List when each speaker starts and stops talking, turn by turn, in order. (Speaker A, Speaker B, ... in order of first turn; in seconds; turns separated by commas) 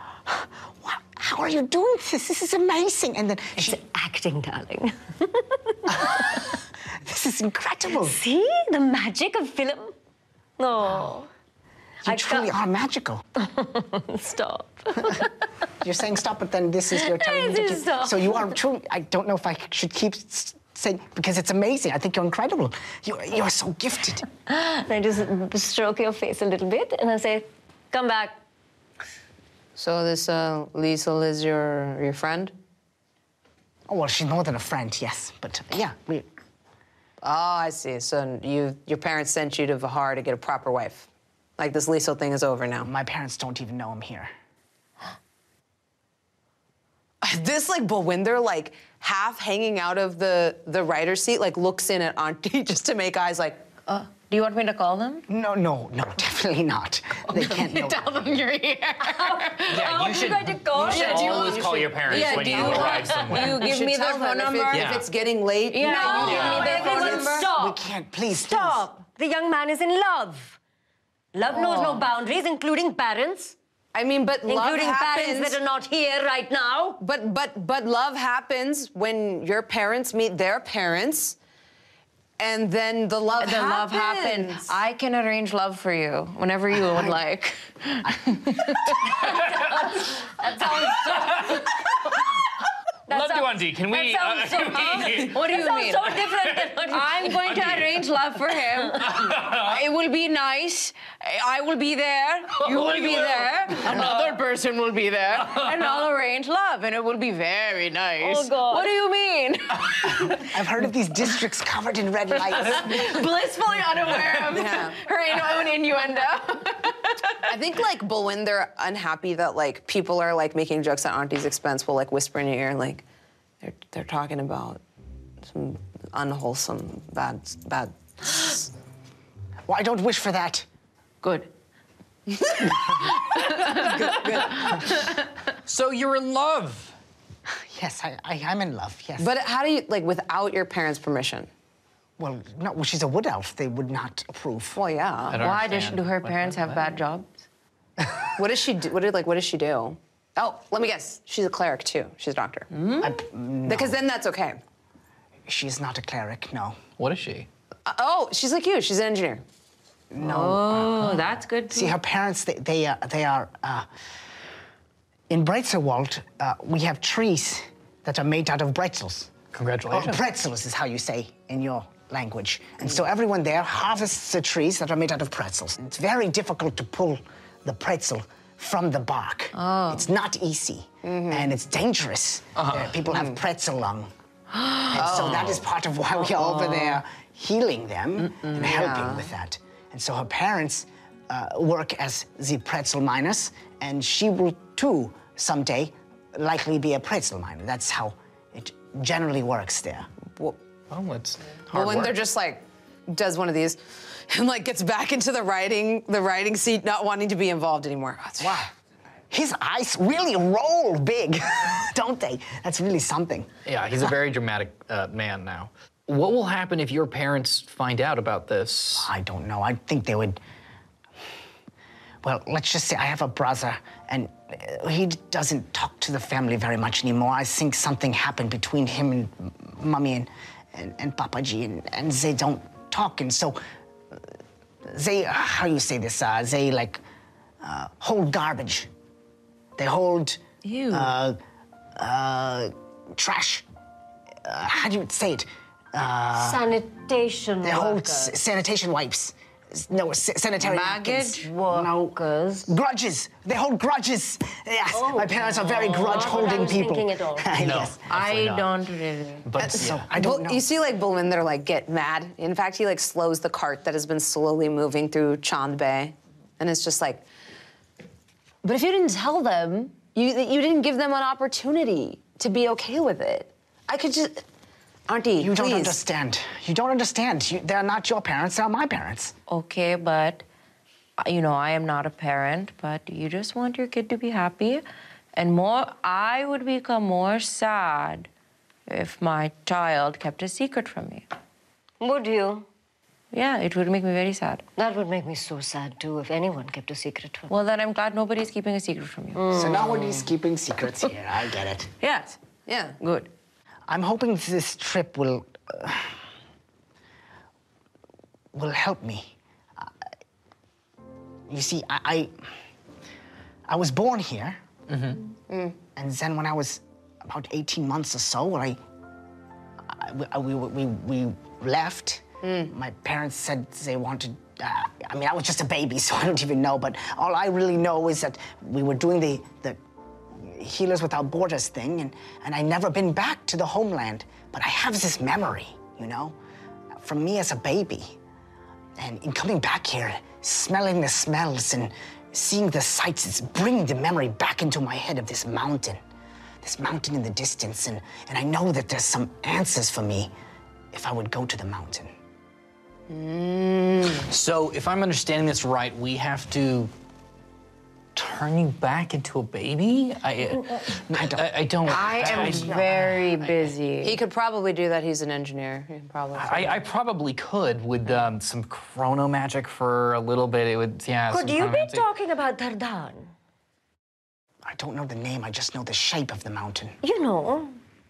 Speaker A: 0.2-3.8, Speaker B: 3.6-6.5, Speaker A: 5.9-8.2, Speaker B: 8.0-9.9, Speaker B: 10.6-11.3, Speaker B: 12.0-12.5, Speaker A: 12.0-13.2, Speaker B: 13.4-15.5, Speaker A: 15.8-24.2, Speaker B: 16.9-18.6, Speaker B: 24.4-28.4, Speaker C: 29.8-32.5, Speaker A: 33.9-36.3, Speaker C: 37.2-42.9, Speaker A: 42.8-44.3, Speaker C: 47.2-53.8, Speaker D: 53.9-55.2, Speaker A: 55.3-58.4, Speaker D: 57.3-59.9, Speaker B: 59.1-61.7, Speaker E: 59.6-63.6, Speaker C: 60.7-67.5, Speaker D: 60.8-65.0, Speaker B: 62.5-62.9, Speaker E: 64.7-65.0, Speaker D: 65.7-67.4, Speaker B: 65.8-67.8, Speaker E: 66.2-66.7, Speaker A: 66.8-68.9, Speaker B: 68.3-70.6, Speaker B: 71.3-73.5, Speaker C: 71.5-72.0, Speaker C: 73.9-75.6, Speaker B: 74.5-77.0, Speaker C: 77.0-81.3, Speaker C: 82.4-84.8, Speaker D: 83.4-89.4, Speaker E: 89.0-90.0, Speaker B: 89.2-92.3, Speaker E: 90.7-91.8, Speaker B: 93.1-97.5, Speaker E: 93.1-95.5, Speaker D: 95.0-96.2, Speaker E: 96.2-96.8, Speaker D: 96.9-110.5, Speaker E: 97.3-98.0, Speaker E: 99.0-99.8, Speaker E: 102.6-104.4, Speaker E: 105.4-106.0, Speaker B: 108.2-108.9, Speaker A: 110.3-113.1, Speaker D: 112.5-117.5, Speaker C: 114.5-115.0, Speaker C: 117.4-123.0, Speaker C: 123.6-124.8, Speaker C: 125.5-128.7, Speaker A: 129.7-130.7, Speaker D: 131.2-131.5, Speaker D: 132.4-135.1, Speaker C: 133.4-134.6, Speaker E: 135.6-136.9, Speaker A: 137.5-139.3, Speaker C: 139.2-141.5, Speaker A: 142.2-144.8, Speaker C: 144.7-145.4, Speaker E: 145.3-146.9, Speaker D: 145.3-147.4, Speaker C: 148.4-153.1, Speaker D: 152.7-153.1, Speaker A: 153.0-154.0, Speaker C: 153.6-154.6, Speaker A: 155.5-156.8, Speaker E: 157.0-157.5, Speaker C: 157.8-159.4, Speaker A: 160.1-163.9, Speaker D: 160.2-161.9, Speaker A: 165.3-169.3, Speaker E: 169.5-170.2, Speaker A: 169.9-184.1, Speaker D: 179.5-180.0, Speaker C: 181.0-181.5, Speaker E: 182.6-183.0, Speaker D: 184.6-184.9, Speaker A: 184.8-200.1, Speaker C: 184.9-185.5, Speaker E: 185.1-185.6, Speaker D: 186.3-187.0, Speaker C: 188.4-189.3, Speaker E: 200.9-202.2, Speaker C: 201.7-208.7, Speaker A: 208.4-208.7, Speaker A: 209.3-213.5, Speaker E: 213.7-219.1, Speaker A: 219.0-220.4, Speaker A: 222.2-233.6, Speaker A: 234.8-237.0, Speaker A: 237.6-238.9, Speaker A: 239.8-241.4, Speaker D: 240.6-241.1, Speaker A: 241.9-243.6, Speaker A: 244.4-246.7, Speaker B: 246.3-248.3, Speaker A: 247.6-258.0, Speaker D: 250.6-251.6, Speaker B: 251.4-252.7, Speaker B: 254.9-257.6, Speaker E: 257.6-258.8, Speaker D: 258.0-259.5, Speaker E: 259.4-260.1, Speaker A: 259.6-260.7, Speaker C: 259.7-267.2, Speaker C: 268.6-274.4, Speaker C: 275.1-276.0, Speaker A: 275.4-279.3, Speaker D: 279.5-280.4, Speaker D: 281.2-288.3, Speaker D: 288.9-291.3, Speaker B: 292.0-292.6, Speaker D: 293.3-294.6, Speaker B: 294.8-297.5, Speaker D: 297.5-299.7, Speaker B: 299.3-300.2, Speaker A: 299.5-301.9, Speaker D: 302.0-302.4, Speaker C: 302.7-303.0, Speaker D: 303.0-303.3, Speaker A: 303.9-306.1, Speaker A: 308.5-309.9, Speaker A: 311.5-312.3, Speaker A: 313.7-314.6, Speaker E: 314.9-315.2, Speaker C: 315.5-315.8, Speaker A: 315.9-318.8, Speaker A: 319.8-329.8, Speaker C: 322.4-322.7, Speaker A: 330.3-336.4, Speaker A: 337.0-338.2, Speaker A: 339.0-346.0, Speaker A: 346.6-350.3, Speaker A: 350.9-352.1, Speaker C: 353.1-354.3, Speaker E: 354.2-356.9, Speaker E: 358.1-363.6, Speaker A: 361.1-363.1, Speaker D: 361.9-364.2, Speaker C: 364.0-366.8, Speaker E: 366.4-372.1, Speaker B: 371.3-373.3, Speaker A: 374.6-376.9, Speaker B: 377.0-377.8